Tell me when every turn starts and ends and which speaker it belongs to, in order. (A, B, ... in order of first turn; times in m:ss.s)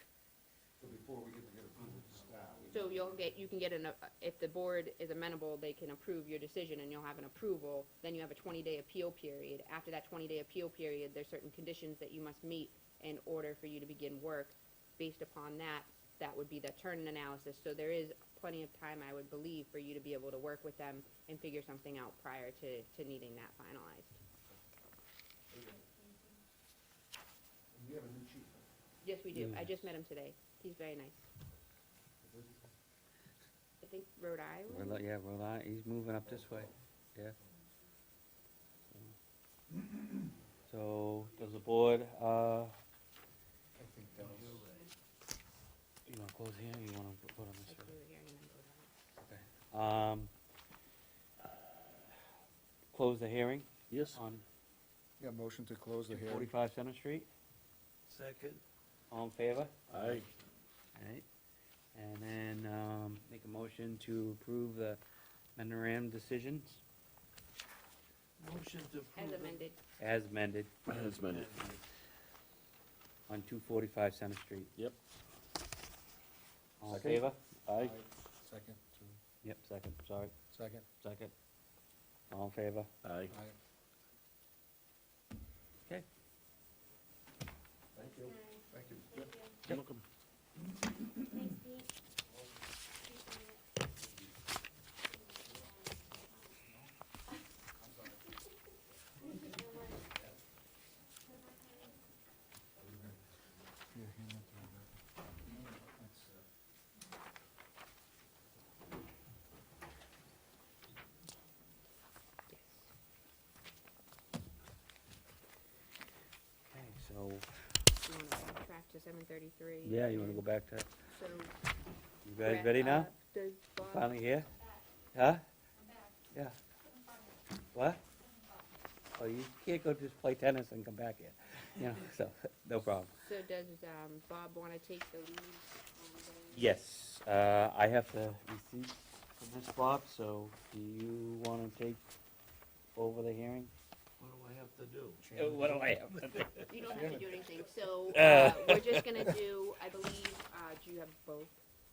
0:00.8-0:02.9 A
0:02.7-0:24.2 B
0:25.5-0:25.8 A
0:27.7-0:28.6 A
0:29.0-0:31.3 B
0:29.3-0:29.9 C
0:32.2-0:32.7 A
0:33.8-0:35.0 B
0:34.7-0:37.4 C
0:36.2-0:36.8 A
0:37.4-0:37.6 A
0:40.7-0:42.7 C
0:43.8-0:44.6 A
0:46.0-0:47.9 C
0:47.6-0:48.9 B
0:49.2-0:50.3 C
0:52.9-0:54.4 C
0:53.9-0:54.2 D
0:55.2-0:56.5 A
0:56.1-0:57.3 C
0:58.1-0:58.6 E
0:59.1-0:59.7 C
0:59.9-1:00.3 D
1:00.9-1:01.2 C
1:01.9-1:05.0 C
1:05.6-1:06.8 C
1:08.4-1:09.6 E
1:09.1-1:09.8 B
1:10.0-1:10.7 C
1:10.9-1:11.6 D
1:11.3-1:11.8 E
1:13.3-1:14.7 C
1:16.8-1:17.4 C
1:16.9-1:17.9 D
1:16.9-1:17.2 A
1:17.8-1:19.2 A
1:19.4-1:20.3 C
1:20.5-1:20.8 A
1:21.0-1:21.3 C
1:22.3-1:22.9 C
1:23.0-1:23.3 D
1:27.9-1:29.2 A
1:29.6-1:30.0 D
1:42.8-1:43.3 A
1:44.2-1:44.8 A
1:45.5-1:46.4 A
1:52.5-1:52.9 B
1:56.6-1:57.8 C
1:58.0-2:00.4 B
1:59.8-2:00.9 C
2:01.1-2:01.5 B
2:02.2-2:03.1 C
2:02.4-2:04.1 B
2:03.8-2:04.5 C
2:05.1-2:05.4 C
2:07.7-2:08.0 C
2:09.2-2:13.1 C
2:13.2-2:16.7 B
2:16.5-2:22.0 C
2:22.9-2:23.7 C
2:24.2-2:25.2 E
2:25.3-2:26.7 C
2:26.7-2:31.6 B
2:28.1-2:29.2 C